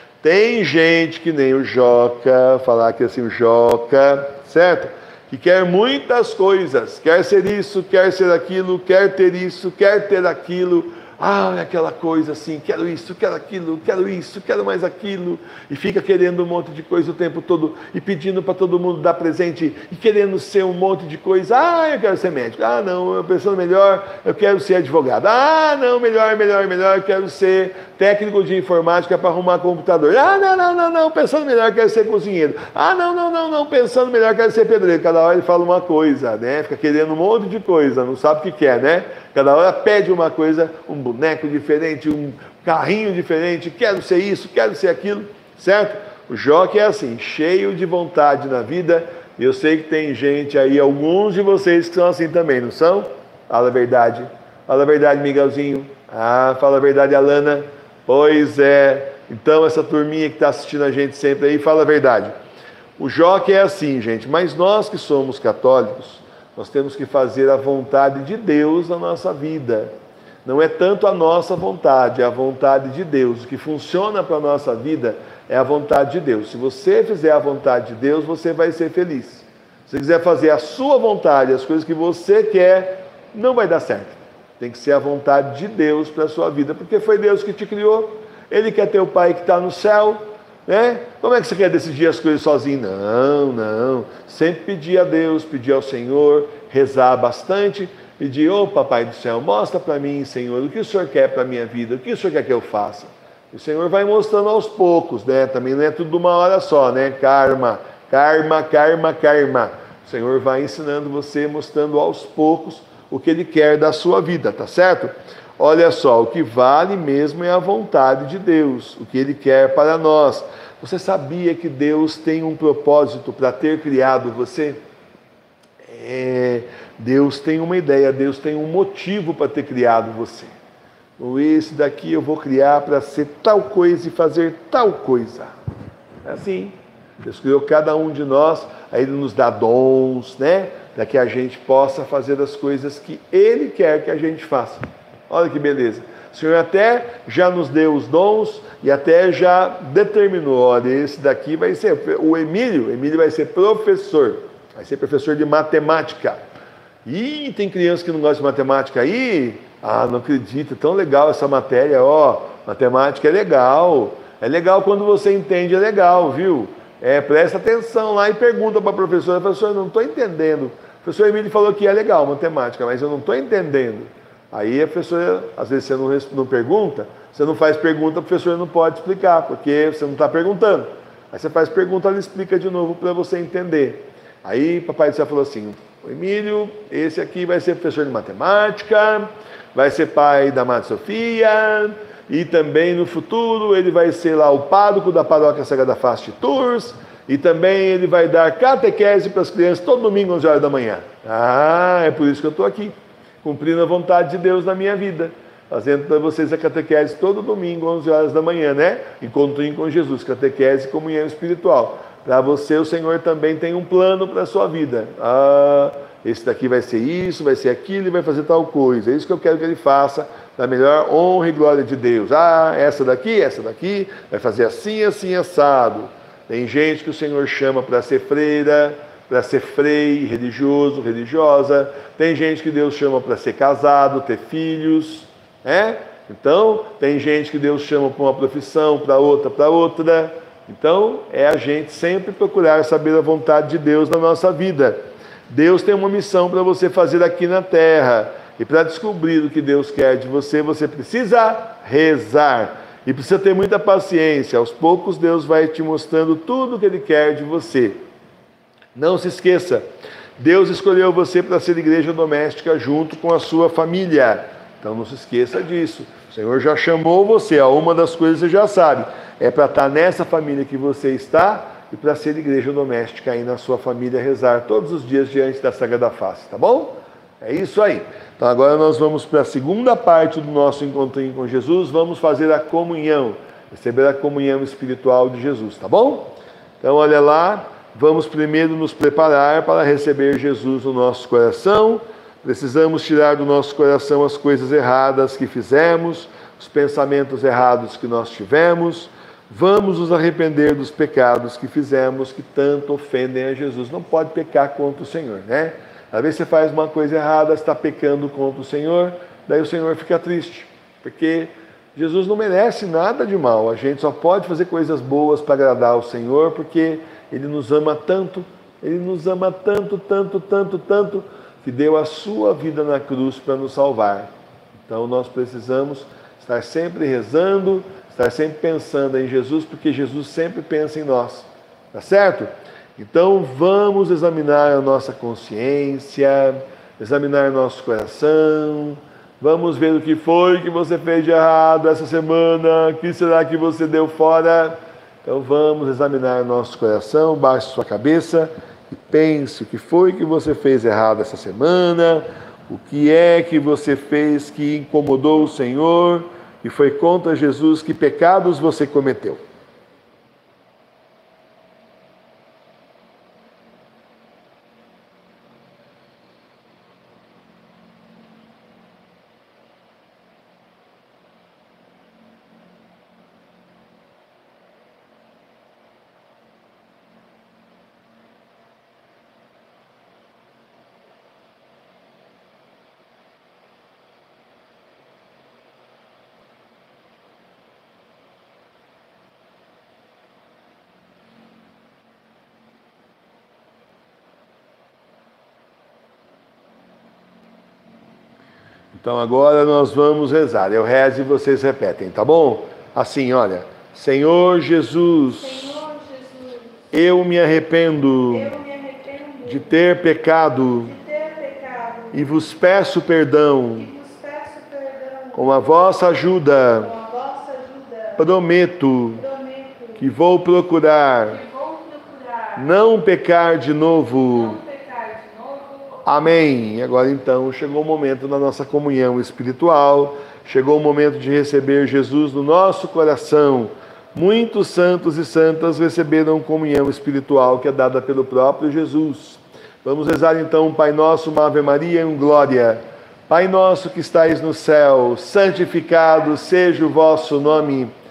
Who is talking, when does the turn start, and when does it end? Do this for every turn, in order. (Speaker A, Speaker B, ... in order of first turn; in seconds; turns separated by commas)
Speaker A: 0.2-62.3, Speaker A: 63.0-69.9, Speaker A: 70.4-124.8, Speaker A: 125.8-130.5, Speaker A: 131.2-135.5, Speaker A: 136.2-156.4, Speaker A: 157.0-258.0, Speaker A: 258.9-259.9, Speaker A: 260.4-324.3, Speaker A: 324.9-359.4, Speaker A: 398.9-405.8, Speaker B: 405.3-406.8, Speaker A: 406.9-408.5, Speaker B: 408.3-409.8, Speaker A: 409.4-410.9, Speaker B: 410.8-412.3, Speaker A: 412.1-413.9, Speaker B: 413.7-415.9, Speaker A: 415.3-416.9, Speaker B: 416.7-418.2, Speaker A: 418.2-419.2, Speaker B: 419.1-420.1, Speaker A: 420.0-421.4, Speaker B: 421.3-422.7, Speaker A: 422.6-424.6, Speaker B: 424.3-426.0, Speaker A: 426.1-447.9